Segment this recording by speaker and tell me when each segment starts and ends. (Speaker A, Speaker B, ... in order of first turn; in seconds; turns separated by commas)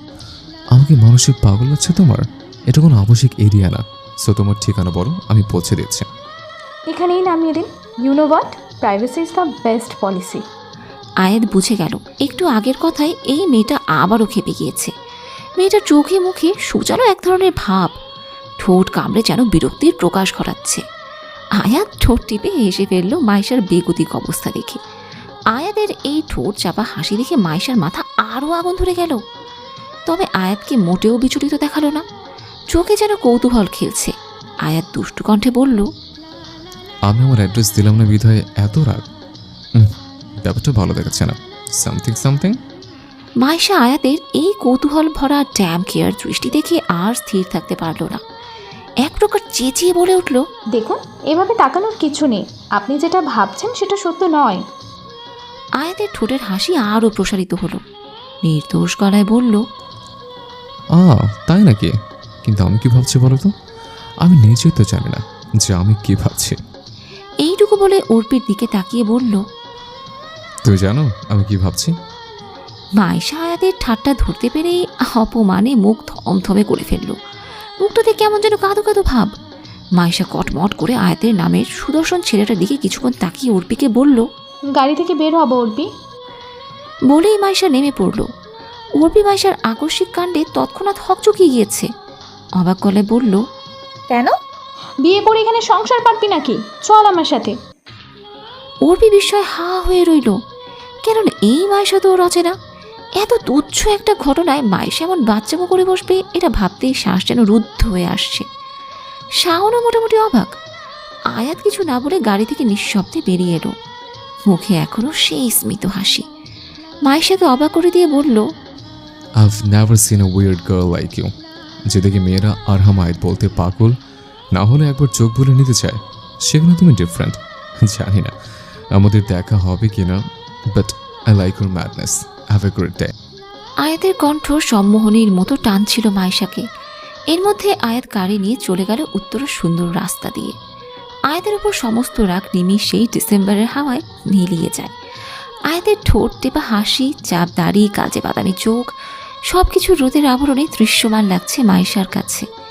Speaker A: 0.7-6.0, Speaker B: 6.9-10.4, Speaker C: 11.2-14.9, Speaker C: 15.6-17.9, Speaker C: 18.6-20.8, Speaker C: 21.6-24.8, Speaker C: 25.5-29.2, Speaker C: 30.1-32.0, Speaker C: 32.7-34.1, Speaker C: 34.6-35.9, Speaker A: 37.1-39.0, Speaker A: 40.4-42.5, Speaker C: 43.4-48.2, Speaker C: 49.0-50.4, Speaker B: 50.7-54.6, Speaker C: 55.8-57.8, Speaker C: 58.4-59.6, Speaker A: 61.0-61.9, Speaker A: 62.4-63.5, Speaker A: 64.2-66.6, Speaker C: 67.4-69.4, Speaker A: 70.6-71.9, Speaker C: 73.0-77.2, Speaker C: 77.8-79.3, Speaker C: 80.0-84.2, Speaker B: 84.8-85.9, Speaker C: 87.1-88.2, Speaker C: 89.0-91.9, Speaker C: 92.6-93.4, Speaker B: 94.1-94.3, Speaker B: 95.0-97.5, Speaker C: 98.8-100.3, Speaker C: 101.0-102.5, Speaker C: 103.2-108.4, Speaker C: 109.4-110.5, Speaker C: 111.3-113.7, Speaker C: 114.5-116.2, Speaker C: 117.1-118.4, Speaker A: 119.4-121.3, Speaker A: 121.9-123.9, Speaker A: 124.5-128.3, Speaker A: 128.9-130.2, Speaker A: 130.7-133.1, Speaker C: 133.8-136.6, Speaker C: 137.3-140.5, Speaker C: 141.3-144.9, Speaker C: 145.7-148.9, Speaker C: 149.5-152.4